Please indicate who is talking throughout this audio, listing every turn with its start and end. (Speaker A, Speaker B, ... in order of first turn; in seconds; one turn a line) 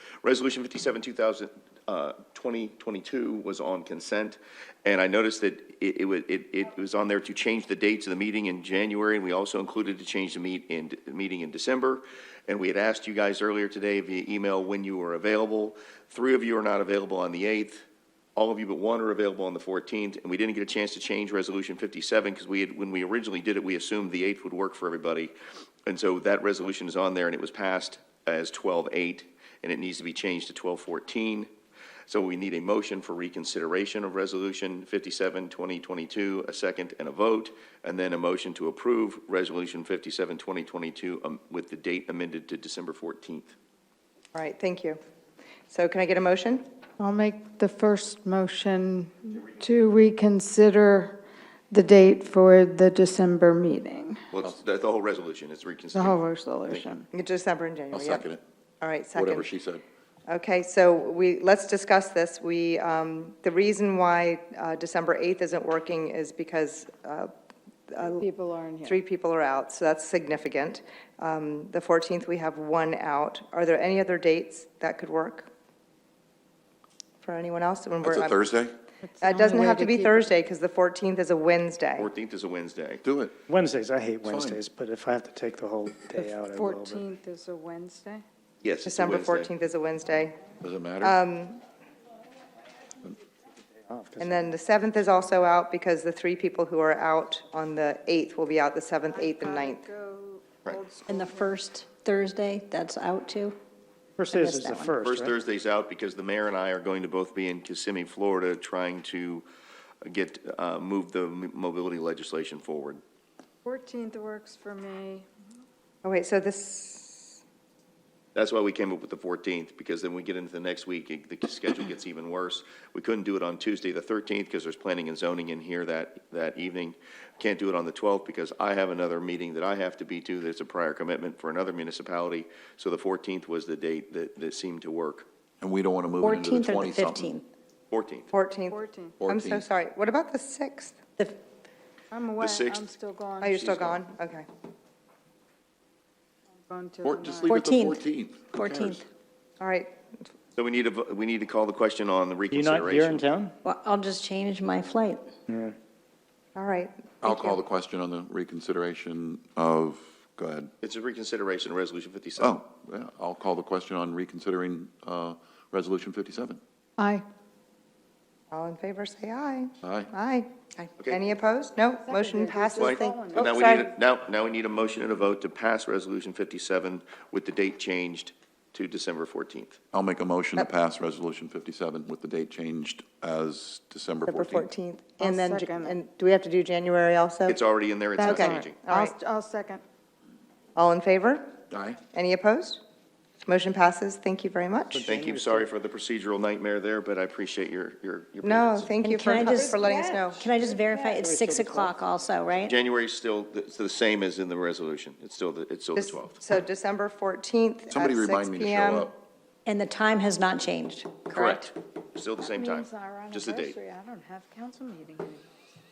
Speaker A: 0.2-17.8
Speaker A: 18.4-25.3
Speaker A: 25.9-31.5
Speaker A: 32.1-43.5
Speaker B: 44.3-45.0
Speaker B: 45.7-46.6
Speaker C: 47.0-51.2
Speaker C: 51.7-54.2
Speaker A: 54.3-56.9
Speaker C: 55.9-57.0
Speaker B: 57.1-58.2
Speaker D: 57.9-58.4
Speaker B: 58.8-59.5
Speaker D: 59.1-59.8
Speaker B: 60.3-67.3
Speaker B: 67.9-68.2
Speaker C: 68.0-69.0
Speaker B: 68.8-75.5
Speaker B: 77.2-78.5
Speaker D: 78.0-78.7
Speaker C: 79.1-80.3
Speaker B: 79.2-82.1
Speaker A: 82.0-83.0
Speaker D: 83.0-83.4
Speaker E: 83.5-87.0
Speaker D: 84.2-84.6
Speaker C: 86.2-88.2
Speaker A: 88.6-89.5
Speaker B: 88.8-90.4
Speaker D: 90.6-91.2
Speaker B: 91.0-91.6
Speaker E: 93.9-94.5
Speaker B: 94.2-99.8
Speaker C: 99.1-101.5
Speaker F: 101.1-103.6
Speaker E: 104.2-105.3
Speaker F: 104.3-104.9
Speaker A: 105.0-109.4
Speaker A: 110.0-113.0
Speaker C: 113.6-115.3
Speaker B: 116.0-117.4
Speaker A: 118.3-135.2
Speaker D: 135.6-137.3
Speaker F: 136.2-137.4
Speaker A: 137.9-138.3
Speaker B: 138.3-140.9
Speaker C: 138.7-139.2
Speaker D: 139.2-139.6
Speaker C: 142.1-143.7
Speaker A: 142.4-142.9
Speaker B: 143.4-144.4
Speaker A: 143.6-143.9
Speaker C: 146.7-147.5
Speaker D: 147.0-149.0
Speaker F: 147.5-149.0
Speaker B: 149.6-149.9
Speaker A: 150.6-153.3
Speaker E: 152.5-153.5
Speaker F: 153.6-155.3
Speaker E: 155.5-155.7
Speaker B: 156.5-157.6
Speaker D: 157.2-160.7
Speaker A: 160.8-162.6
Speaker D: 162.4-166.6
Speaker C: 167.0-167.2
Speaker B: 168.5-173.9
Speaker D: 169.8-170.1
Speaker C: 172.0-173.8
Speaker A: 172.8-179.8
Speaker D: 179.9-184.7
Speaker B: 184.3-187.6
Speaker C: 185.2-186.0
Speaker A: 187.5-188.8
Speaker C: 188.2-189.8
Speaker B: 188.2-189.1
Speaker B: 190.8-191.5
Speaker D: 191.7-192.0
Speaker B: 192.1-192.8
Speaker B: 193.5-195.1
Speaker E: 194.9-195.7
Speaker A: 195.0-198.9
Speaker B: 198.4-200.4
Speaker F: 199.0-202.7
Speaker E: 201.1-201.9
Speaker A: 202.6-206.4
Speaker B: 205.9-209.1
Speaker D: 207.9-209.2
Speaker F: 209.6-211.7
Speaker A: 211.3-213.8
Speaker C: 212.4-215.5